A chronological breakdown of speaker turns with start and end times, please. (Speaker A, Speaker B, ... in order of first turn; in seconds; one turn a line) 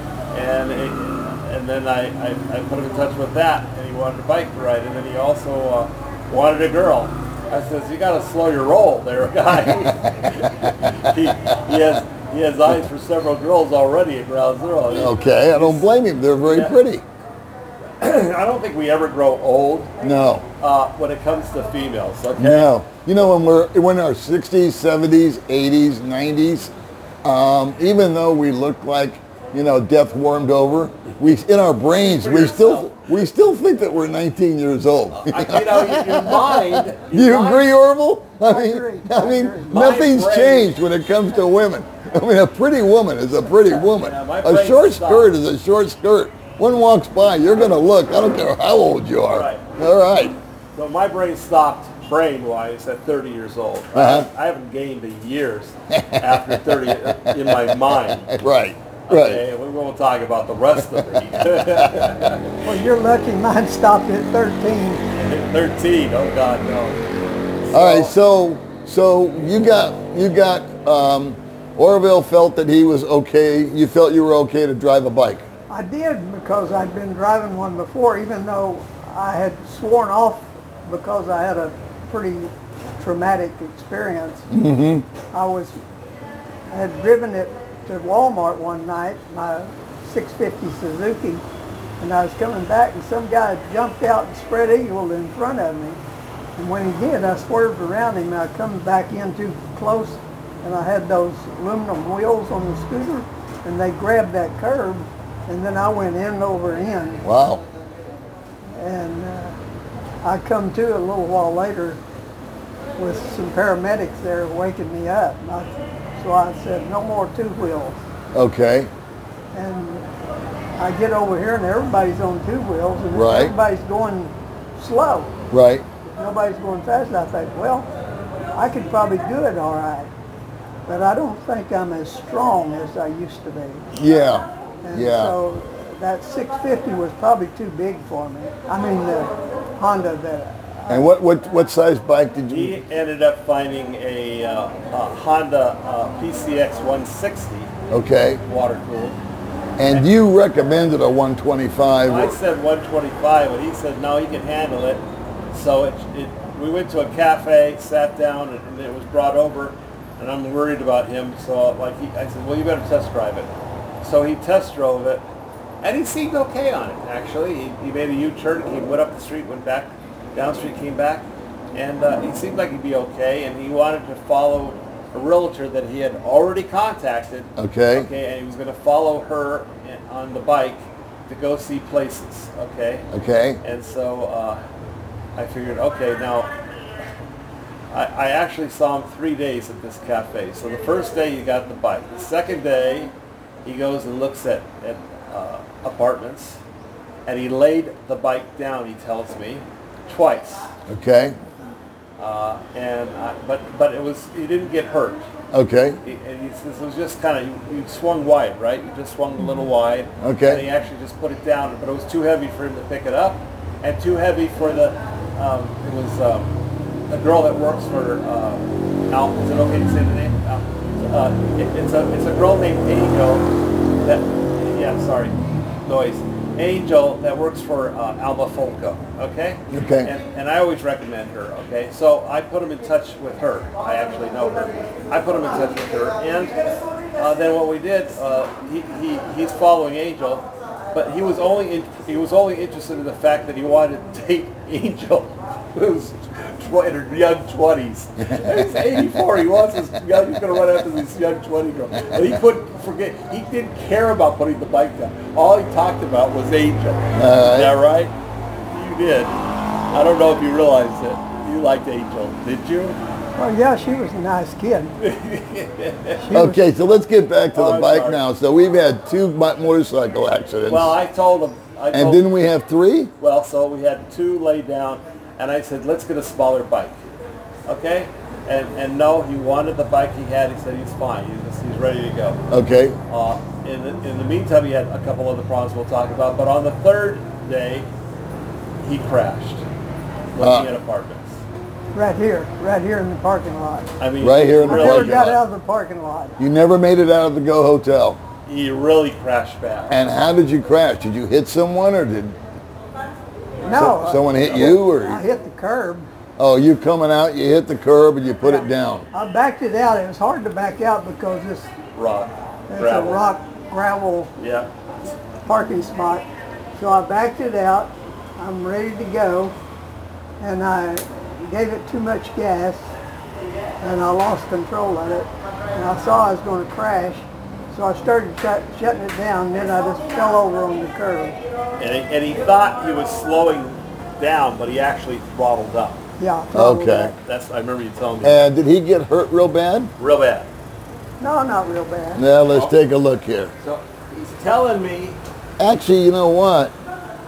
Speaker A: 0.3-15.9
Speaker B: 9.6-11.9
Speaker B: 14.9-17.1
Speaker A: 16.4-16.8
Speaker A: 18.0-19.9
Speaker B: 20.0-20.5
Speaker A: 20.6-22.7
Speaker B: 22.4-26.7
Speaker B: 27.2-50.4
Speaker A: 31.9-33.1
Speaker A: 35.2-37.7
Speaker C: 38.4-39.8
Speaker A: 39.7-40.7
Speaker A: 43.6-45.3
Speaker A: 49.3-49.6
Speaker A: 50.8-58.4
Speaker B: 53.9-54.3
Speaker B: 55.9-59.4
Speaker A: 59.1-62.6
Speaker B: 60.9-62.4
Speaker C: 62.6-65.0
Speaker A: 65.1-67.0
Speaker A: 67.6-68.1
Speaker B: 67.7-75.5
Speaker C: 75.7-84.5
Speaker B: 84.5-85.1
Speaker C: 85.3-85.8
Speaker C: 86.7-91.4
Speaker C: 92.0-96.0
Speaker C: 96.6-107.2
Speaker B: 107.2-107.6
Speaker C: 108.8-109.6
Speaker C: 110.2-112.0
Speaker C: 113.0-118.0
Speaker B: 118.3-118.9
Speaker C: 119.5-120.1
Speaker C: 120.8-125.3
Speaker B: 123.1-123.5
Speaker B: 125.5-125.8
Speaker C: 126.1-127.9
Speaker C: 128.6-130.1
Speaker C: 130.9-133.8
Speaker B: 133.9-135.4
Speaker C: 134.8-141.1
Speaker B: 140.9-142.8
Speaker A: 142.5-147.7
Speaker B: 147.9-148.4
Speaker A: 148.5-149.2
Speaker B: 149.8-152.3
Speaker A: 152.1-163.5
Speaker A: 164.0-165.2
Speaker A: 165.8-183.1
Speaker B: 177.6-178.1
Speaker B: 183.1-183.6
Speaker A: 183.6-184.6
Speaker A: 185.4-186.5
Speaker A: 187.9-193.1
Speaker A: 193.6-196.6
Speaker A: 197.2-200.7
Speaker B: 200.9-201.4
Speaker A: 202.2-205.2
Speaker B: 205.5-206.0
Speaker A: 206.0-216.5
Speaker B: 210.2-210.7
Speaker A: 217.1-223.5
Speaker A: 224.0-236.6
Speaker B: 229.7-230.1
Speaker A: 237.2-258.1
Speaker B: 257.1-257.8
Speaker A: 258.7-263.0
Speaker C: 263.4-265.0
Speaker A: 265.0-266.2
Speaker C: 266.2-266.6
Speaker B: 266.3-270.9
Speaker A: 267.5-268.2
Speaker A: 270.7-272.2
Speaker B: 271.9-273.1
Speaker A: 273.2-276.9
Speaker A: 277.6-282.4
Speaker B: 282.5-283.0
Speaker A: 283.1-287.9
Speaker A: 288.8-289.6
Speaker A: 290.4-291.4
Speaker B: 290.4-290.7
Speaker C: 291.9-293.9
Speaker A: 294.0-295.3
Speaker B: 294.2-295.4
Speaker C: 294.6-296.4
Speaker B: 296.4-298.2
Speaker A: 298.5-299.9
Speaker B: 299.9-302.4
Speaker C: 303.6-306.1
Speaker B: 303.7-305.2
Speaker B: 306.4-309.1
Speaker C: 309.1-311.7
Speaker A: 311.9-313.2
Speaker C: 312.7-314.3
Speaker A: 314.4-314.7
Speaker C: 315.4-316.2
Speaker C: 316.8-319.5
Speaker C: 320.4-322.9
Speaker C: 323.8-331.4
Speaker A: 331.8-336.0
Speaker C: 336.2-337.1
Speaker B: 336.5-337.1
Speaker A: 337.2-338.4
Speaker B: 338.2-339.9
Speaker A: 340.0-340.5
Speaker C: 341.2-342.2
Speaker B: 342.1-343.5
Speaker A: 343.6-345.2
Speaker B: 345.6-346.7